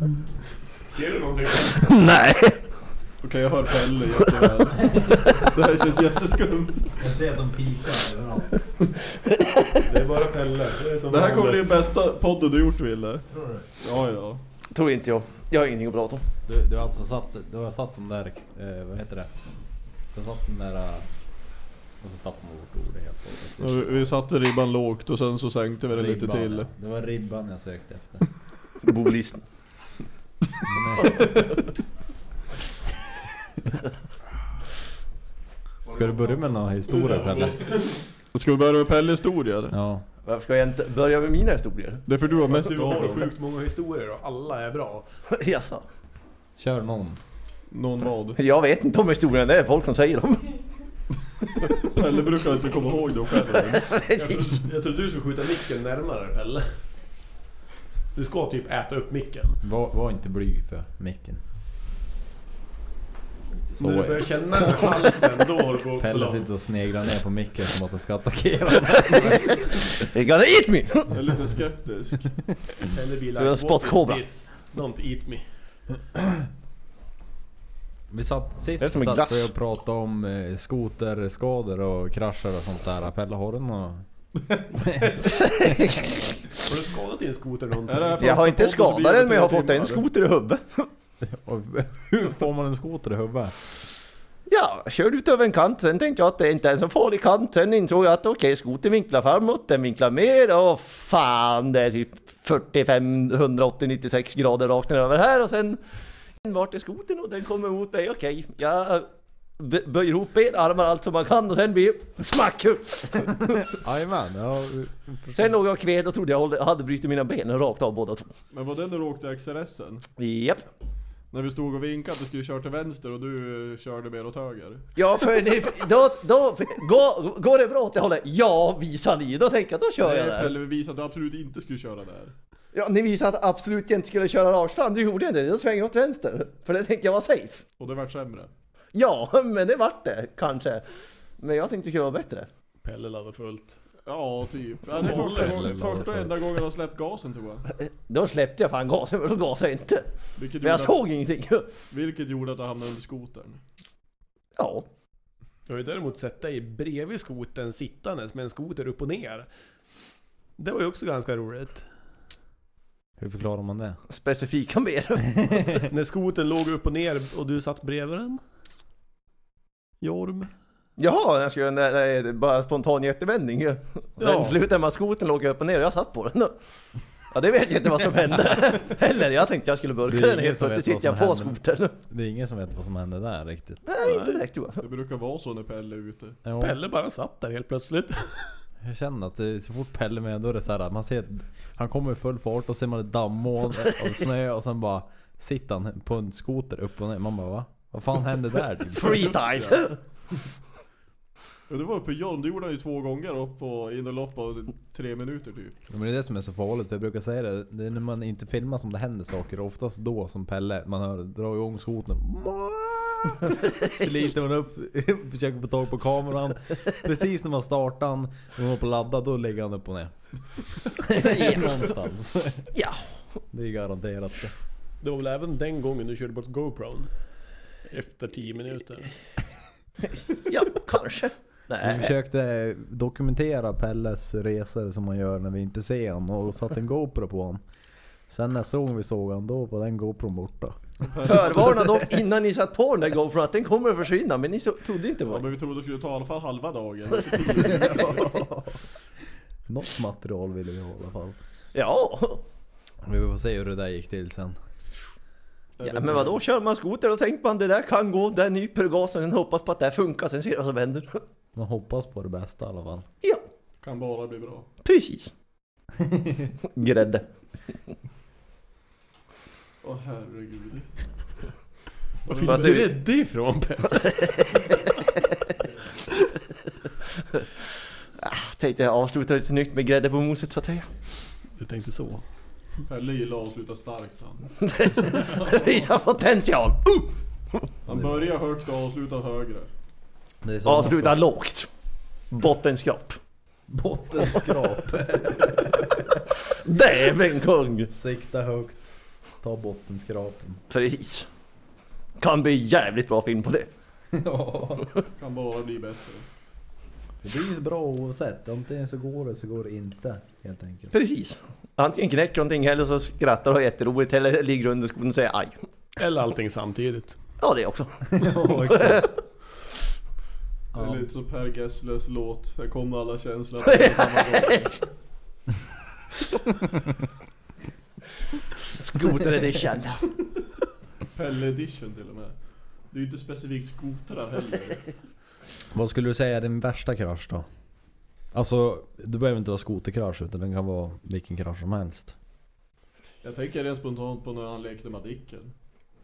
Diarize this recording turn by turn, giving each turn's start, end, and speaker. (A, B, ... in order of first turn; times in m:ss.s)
0:00.8-0:02.0 A
0:01.9-0:02.6 B
0:03.2-0:07.0 C
0:04.9-0:05.4 D
0:07.0-0:08.6 D
0:09.3-0:09.8 B
0:09.8-0:11.8 A
0:11.1-0:14.4 C
0:13.3-0:13.6 D
0:14.7-0:16.2 B
0:16.5-0:19.3 D
0:20.1-0:21.1 D
0:22.0-0:24.1 D
0:23.6-0:26.7 C
0:25.9-0:28.3 D
0:28.8-0:29.4 B
0:30.7-0:31.4 D
0:31.0-0:31.5 B
0:35.9-0:37.8 D
0:35.9-0:38.0 A
0:38.3-0:39.7 C
0:39.7-0:40.0 D
0:40.2-0:42.0 B
0:42.0-0:43.3 C
0:42.3-0:45.0 A
0:45.3-0:45.8 B
0:46.6-0:47.2 D
0:47.7-0:48.4 C
0:48.4-0:50.6 B
0:51.8-0:54.0 C
0:53.7-0:54.6 B
0:54.2-0:56.7 A
0:58.1-0:59.6 A
0:59.6-1:01.4 D
1:03.6-1:05.1 D
1:03.8-1:06.5 A
1:06.0-1:09.8 D
1:09.1-1:11.1 B
1:11.1-1:12.3 C
1:12.8-1:15.4 A
1:13.3-1:14.2 B
1:18.1-1:25.9 D
1:18.8-1:19.5 B
1:25.2-1:26.1 B
1:26.5-1:28.3 A
1:27.9-1:30.0 C
1:28.2-1:30.9 B
1:31.2-1:33.6 D
1:34.5-1:45.8 B
1:46.4-1:53.8 B
1:53.6-1:55.5 D
1:55.3-1:58.3 B
1:58.5-2:00.0 C
2:00.2-2:00.6 B
2:01.3-2:04.9 C
2:05.0-2:10.5 B
2:10.0-2:12.3 C
2:12.7-2:17.6 B
2:17.8-2:18.5 C
2:18.9-2:20.8 B
2:21.4-2:22.5 B
2:22.8-2:23.8 A
2:24.1-2:27.7 C
2:24.9-2:25.7 A
2:25.2-2:26.3 D
2:27.8-2:30.1 B
2:30.4-2:31.0 C
2:30.6-2:31.7 B
2:31.9-2:33.6 C
2:34.6-2:34.9 B
2:35.7-2:39.5 A
2:40.6-2:41.8 A
2:43.2-2:44.0 D
2:44.1-2:45.7 B
2:45.9-2:48.4 A
2:50.0-2:50.5 A
2:51.0-2:56.5 B
2:54.2-2:54.6 A
2:57.3-3:02.0 B
3:00.1-3:01.6 D
3:02.1-3:03.9 D
3:03.9-3:04.8 B
3:04.0-3:04.4 A
3:04.8-3:06.4 C
3:06.4-3:06.8 D
3:06.6-3:08.6 A
3:08.8-3:19.3 D
3:18.9-3:20.0 B
3:19.0-3:19.9 C
3:21.7-3:25.8 C
3:25.9-3:42.7 D
3:33.6-3:33.9 B
3:41.2-3:41.9 B
3:42.7-3:43.1 B
3:43.5-3:44.5 D
3:45.0-3:47.1 A
3:47.9-3:49.1 A
3:50.3-3:52.1 B
3:51.8-3:57.6 D
3:58.3-4:00.8 D
4:01.0-4:01.9 C
4:01.2-4:05.4 B
4:01.3-4:01.8 D
4:05.3-4:08.4 C
4:07.6-4:08.8 D
4:09.7-4:11.4 D
4:11.7-4:12.4 B
4:13.0-4:14.6 D
4:15.8-4:16.4 C
4:15.8-4:21.2 B
4:21.6-4:23.1 D
4:23.8-4:24.7 C
4:24.8-4:25.3 B
4:26.0-4:26.5 D
4:26.6-4:27.2 B
4:29.8-4:30.9 C
4:32.3-4:32.9 C
4:32.3-4:34.5 A
4:32.4-4:32.9 B
4:34.5-4:34.9 B
4:38.2-4:40.9 B
4:41.6-4:42.2 A
4:42.9-4:44.5 C
4:44.6-4:47.6 B
4:47.9-4:49.7 C
4:47.9-4:48.3 D
4:50.4-4:51.2 D
4:50.6-4:51.7 B
4:52.3-4:53.2 B
4:53.7-4:56.2 D
4:56.6-4:57.9 B
4:57.9-5:00.6 D
5:00.7-5:01.3 B
5:02.2-5:03.7 B
5:04.1-5:04.9 D
5:05.2-5:06.2 C
5:07.2-5:10.9 D
5:10.9-5:15.6 B
5:16.0-5:17.2 A
5:17.4-5:19.1 B
5:18.1-5:19.0 D
5:18.4-5:19.0 C
5:20.7-5:21.1 D
5:20.7-5:24.8 C
5:23.6-5:24.7 B
5:28.7-5:30.1 B
5:31.1-5:32.4 C
5:32.9-5:34.9 C
5:35.7-5:37.5 D
5:38.3-5:42.1 D
5:43.2-5:45.5 C